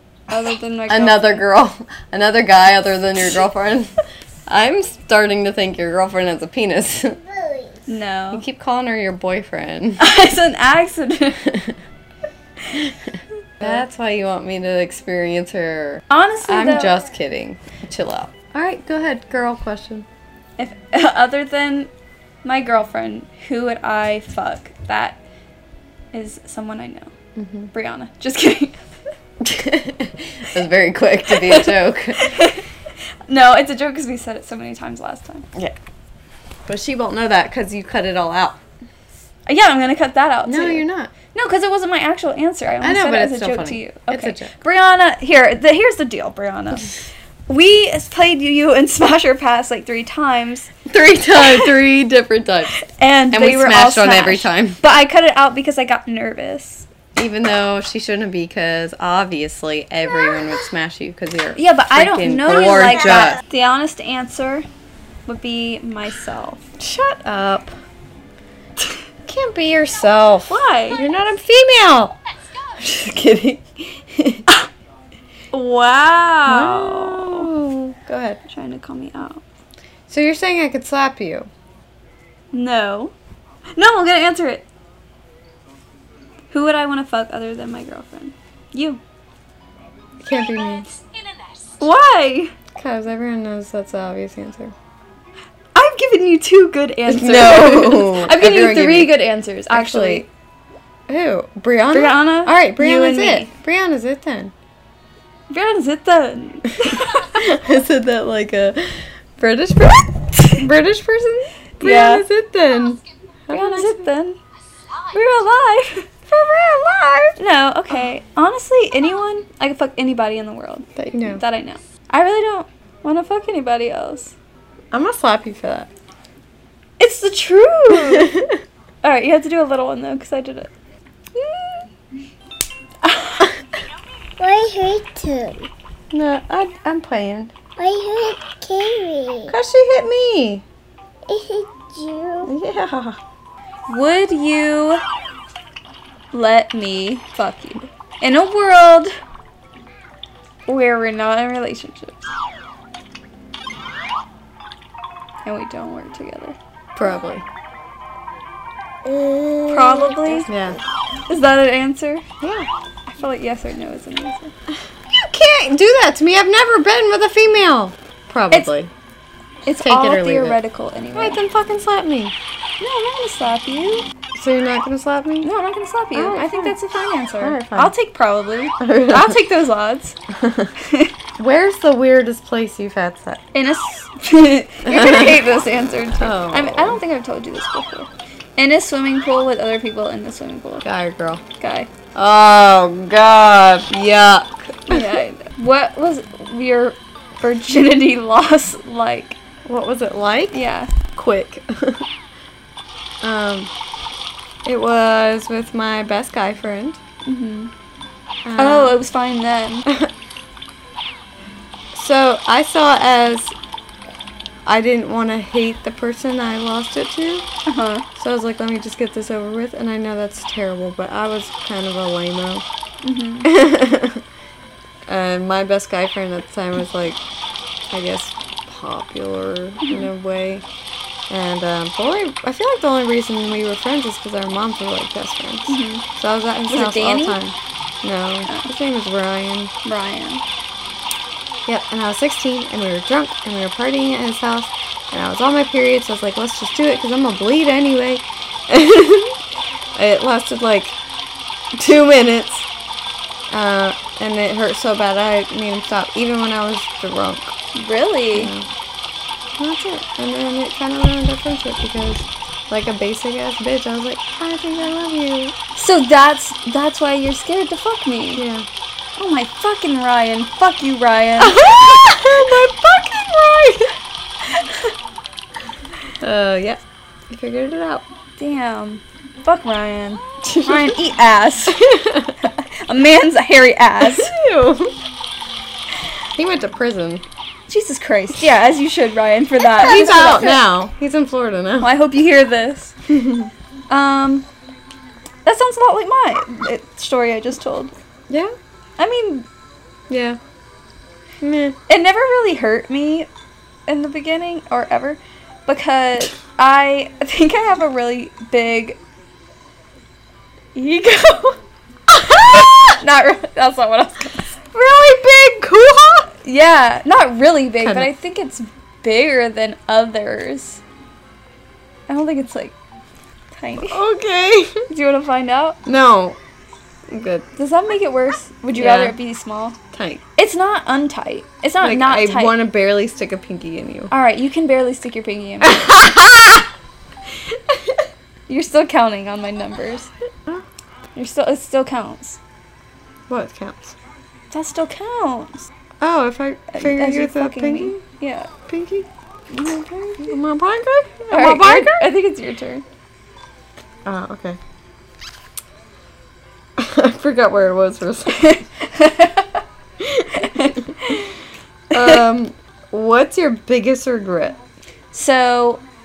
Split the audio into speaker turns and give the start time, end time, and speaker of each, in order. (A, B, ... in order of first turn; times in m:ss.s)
0:00.3-0:01.4 A
0:00.9-0:03.9 B
0:04.5-0:07.2 B
0:07.2-0:07.8 C
0:07.9-0:08.4 A
0:08.3-0:10.0 B
0:10.0-0:11.5 A
0:11.4-0:11.8 B
0:12.7-0:20.0 B
0:16.1-0:17.0 A
0:20.6-0:21.9 A
0:22.4-0:25.2 A
0:26.1-0:27.1 A
0:27.4-0:27.7 B
0:27.7-0:28.8 A
0:29.4-0:32.3 B
0:31.3-0:32.6 A
0:33.3-0:35.5 A
0:36.7-0:38.6 B
0:39.5-0:46.9 A
0:40.4-0:41.1 B
0:42.8-0:44.5 B
0:47.5-0:50.7 A
0:50.8-0:52.8 B
0:51.4-0:51.7 A
0:52.7-0:56.9 A
0:53.3-0:54.8 B
0:57.1-1:03.4 B
1:01.6-1:04.7 A
1:05.3-1:06.6 A
1:06.8-1:07.7 B
1:09.2-1:12.2 B
1:10.5-1:11.0 A
1:12.8-1:14.4 B
1:15.5-1:17.5 A
1:16.4-1:18.4 B
1:18.5-1:19.4 A
1:20.1-1:21.5 B
1:22.5-1:23.1 A
1:23.7-1:24.7 A
1:26.5-1:29.0 A
1:30.2-1:31.0 B
1:31.8-1:32.5 A
1:32.7-1:34.7 B
1:35.7-1:40.3 A
1:37.1-1:40.3 B
1:41.1-1:44.5 B
1:41.9-1:43.5 A
1:45.5-1:47.5 A
1:46.8-1:54.1 B
1:51.8-1:52.2 A
1:53.5-1:54.4 A
1:55.1-1:56.1 A
1:56.3-1:57.4 B
1:57.4-2:04.3 A
2:01.0-2:01.4 B
2:04.9-2:05.9 B
2:07.0-2:08.4 A
2:07.9-2:08.6 B
2:09.0-2:10.7 A
2:13.0-2:13.5 A
2:14.4-2:15.7 C
2:16.1-2:17.5 B
2:17.8-2:19.5 C
2:19.5-2:20.6 B
2:21.3-2:22.5 C
2:22.4-2:23.2 B
2:23.9-2:25.0 A
2:26.3-2:29.1 A
2:30.7-2:32.2 A
2:35.4-2:36.6 A
2:37.0-2:37.4 B
2:39.0-2:40.7 C
2:39.7-2:40.5 A
2:40.5-2:40.8 B
2:41.3-2:42.2 A
2:42.4-2:42.7 B
2:43.1-2:44.5 A
2:45.1-2:48.9 B
2:49.6-2:51.4 A
2:49.8-2:50.6 B
2:51.1-2:52.3 B
2:52.8-2:54.1 A
2:54.3-2:55.5 B
2:55.4-3:00.2 A
2:56.1-2:56.8 B
2:57.4-2:57.9 B
2:58.8-2:59.4 B
3:00.3-3:00.7 B
3:00.8-3:01.1 A
3:01.4-3:03.4 B
3:03.5-3:10.8 A
3:04.8-3:05.5 B
3:06.2-3:07.0 B
3:10.8-3:11.4 B
3:11.6-3:11.9 A
3:12.1-3:15.2 B
3:14.9-3:19.4 A
3:19.6-3:20.6 B
3:20.5-3:20.9 A
3:21.1-3:22.1 B
3:23.2-3:23.7 B
3:24.6-3:27.0 B
3:27.2-3:27.7 A
3:28.4-3:29.0 B
3:28.6-3:29.9 A
3:31.9-3:33.5 B
3:34.6-3:37.4 B
3:37.6-3:38.0 A
3:38.2-3:42.6 B
3:43.0-3:43.5 A
3:43.4-3:44.2 B
3:45.1-3:47.2 B
3:47.9-3:50.6 B
3:51.3-3:59.7 B
3:55.7-3:56.0 A
3:56.7-3:57.4 A
3:59.8-4:00.4 A
4:01.7-4:09.4 B
4:09.9-4:11.0 B
4:11.8-4:12.7 B
4:13.5-4:17.5 B
4:17.7-4:18.5 A
4:18.3-4:18.7 B
4:19.6-4:25.5 B
4:25.8-4:28.4 A
4:28.3-4:28.7 B
4:29.2-4:31.6 A
4:31.4-4:33.9 B
4:34.4-4:34.9 A
4:36.2-4:38.0 B
4:38.4-4:44.3 A
4:40.4-4:41.0 B
4:41.7-4:42.4 B
4:44.0-4:45.0 B
4:46.4-4:47.2 B
4:47.7-4:50.6 A
4:49.8-4:51.9 B
4:51.8-4:53.0 A
4:53.1-4:53.5 B
4:53.9-4:54.4 A
4:55.4-4:57.9 A
4:58.3-4:58.5 B
4:59.0-4:59.5 A
5:00.1-5:00.4 B
5:01.4-5:01.8 B
5:01.9-5:03.3 A
5:03.9-5:09.0 A
5:10.7-5:11.6 A
5:12.1-5:13.0 B
5:12.9-5:14.6 A
5:14.7-5:16.3 B
5:16.4-5:20.8 A
5:17.8-5:18.1 B
5:22.1-5:22.7 A
5:23.5-5:24.0 A
5:23.8-5:24.8 B
5:24.9-5:25.8 A
5:25.8-5:26.4 B
5:27.1-5:27.5 B
5:27.6-5:29.8 A
5:28.7-5:29.2 B
5:29.9-5:30.2 B
5:30.4-5:32.6 A
5:31.8-5:34.1 B
5:34.1-5:36.0 A
5:35.6-5:36.7 B
5:37.5-5:38.0 B
5:38.5-5:40.1 A
5:41.2-5:42.4 A
5:43.3-5:44.0 B
5:44.5-5:45.7 A
5:46.0-5:48.0 B
5:46.7-5:48.5 A
5:48.7-5:52.1 B
5:49.5-5:50.3 A
5:51.3-5:52.8 A
5:54.0-5:54.6 B
5:56.8-5:58.6 B
5:58.3-5:59.6 A
6:00.0-6:00.9 B
6:00.3-6:01.3 A
6:01.9-6:04.6 B
6:01.9-6:02.2 A
6:05.1-6:05.8 A